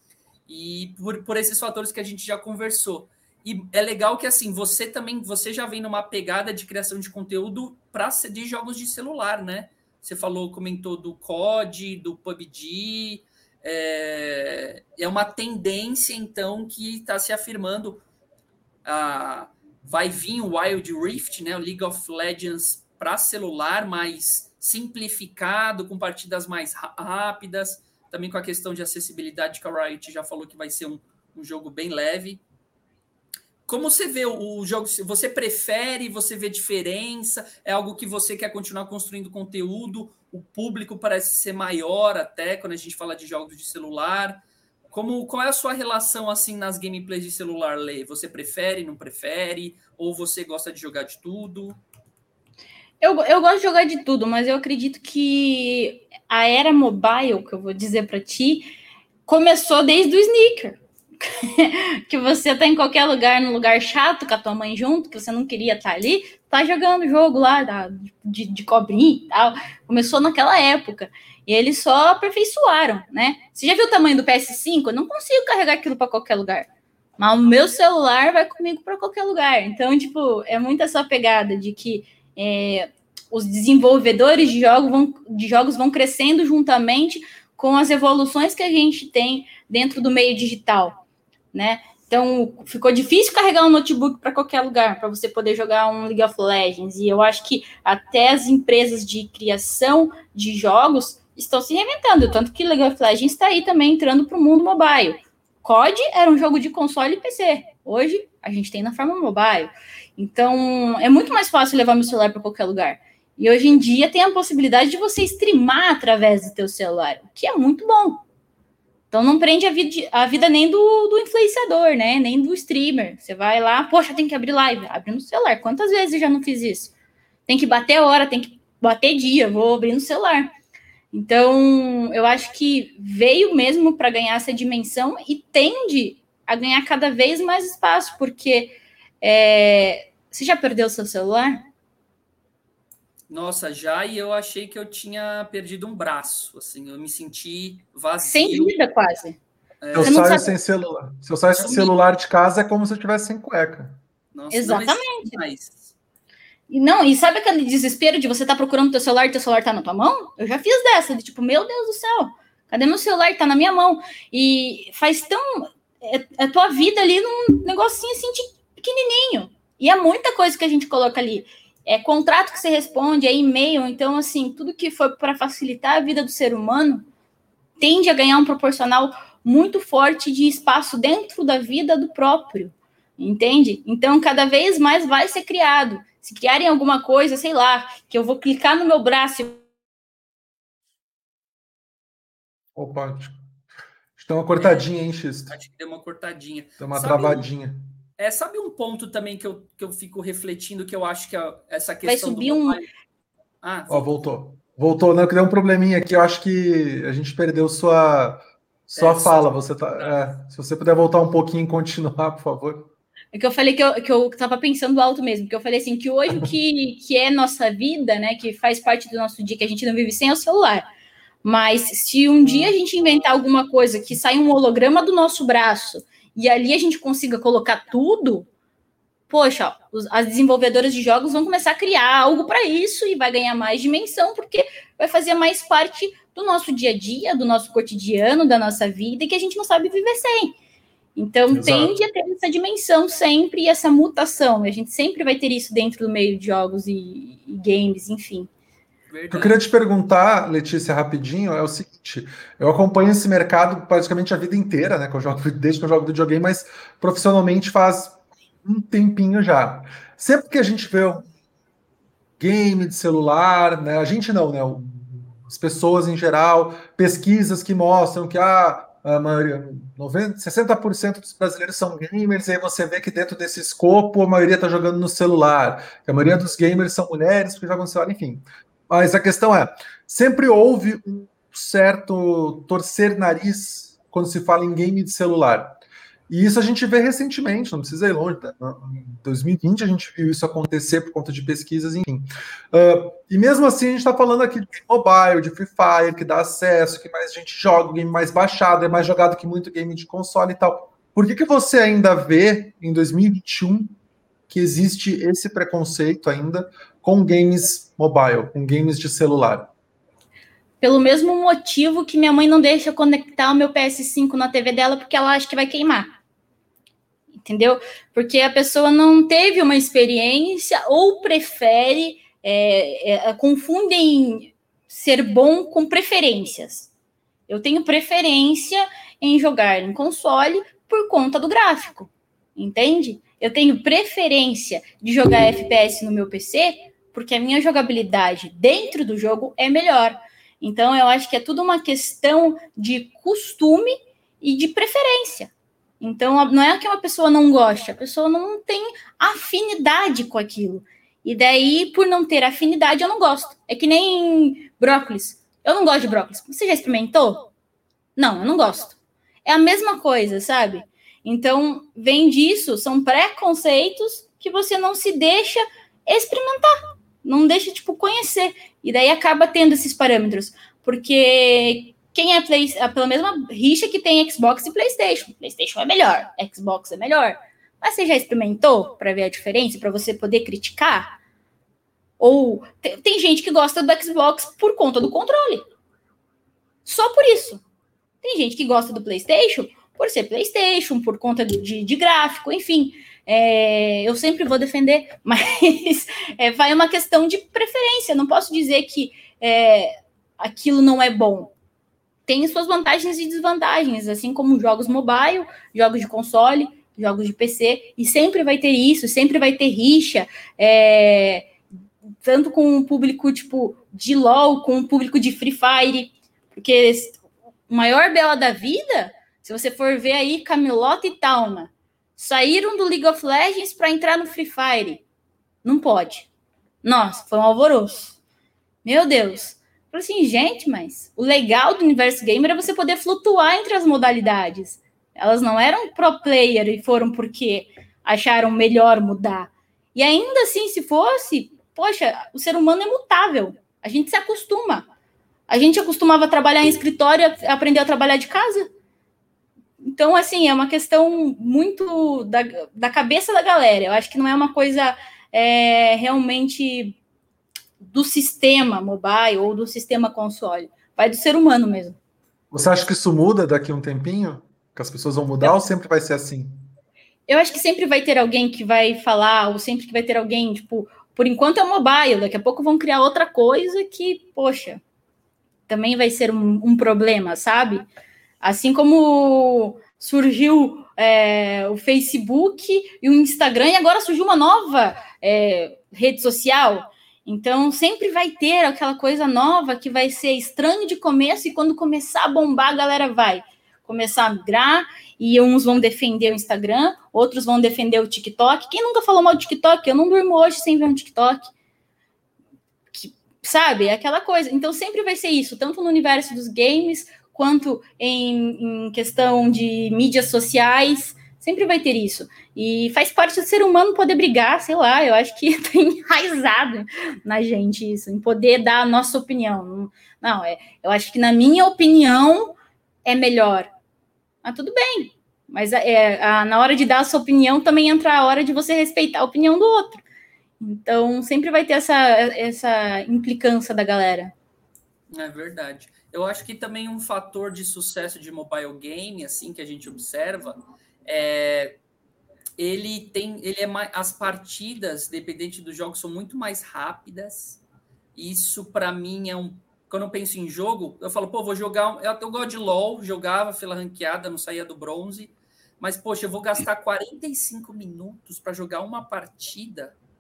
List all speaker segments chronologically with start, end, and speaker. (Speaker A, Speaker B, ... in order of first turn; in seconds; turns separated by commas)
Speaker A: 0.5-18.0, Speaker A: 18.8-32.4, Speaker A: 33.7-44.4, Speaker A: 44.9-51.8, Speaker B: 53.0-58.7, Speaker B: 59.3-76.7, Speaker B: 77.2-91.0, Speaker B: 91.5-118.2, Speaker B: 119.1-126.9, Speaker B: 127.5-130.5, Speaker B: 131.1-141.6, Speaker A: 143.3-148.7, Speaker B: 148.2-149.4, Speaker A: 149.8-150.2, Speaker C: 149.9-154.0, Speaker B: 150.0-150.5, Speaker A: 151.6-151.9, Speaker A: 154.3-155.9, Speaker B: 154.5-155.3, Speaker B: 156.7-177.0, Speaker B: 177.8-189.6, Speaker C: 192.8-193.3, Speaker C: 194.2-195.5, Speaker A: 194.6-194.9, Speaker A: 195.5-197.5, Speaker C: 196.8-197.8, Speaker A: 198.2-202.8, Speaker B: 202.1-202.8, Speaker A: 203.6-204.1, Speaker C: 203.9-212.9, Speaker A: 209.0-210.2, Speaker B: 213.3-220.8, Speaker B: 221.4-228.5, Speaker C: 222.4-222.7, Speaker B: 229.3-240.5, Speaker B: 241.2-248.5, Speaker C: 241.5-242.0, Speaker A: 249.1-249.6, Speaker C: 249.3-261.3, Speaker C: 262.4-285.8, Speaker C: 286.3-303.9, Speaker C: 304.5-309.7, Speaker B: 310.8-316.1, Speaker B: 317.4-326.9, Speaker B: 327.5-357.5, Speaker B: 358.2-381.1, Speaker B: 382.2-385.6, Speaker B: 386.8-387.6, Speaker B: 388.2-401.5, Speaker B: 402.2-411.5, Speaker B: 412.2-425.0, Speaker B: 425.6-426.3, Speaker B: 426.8-428.2, Speaker B: 428.8-444.9, Speaker B: 445.5-448.7, Speaker B: 449.8-457.0, Speaker B: 457.8-462.0, Speaker C: 462.5-466.6, Speaker B: 467.3-474.8, Speaker B: 475.7-477.9, Speaker B: 478.4-501.5, Speaker B: 502.9-523.7, Speaker B: 524.4-530.0, Speaker B: 530.6-534.3, Speaker A: 535.1-541.8, Speaker A: 542.6-547.6, Speaker A: 548.1-559.9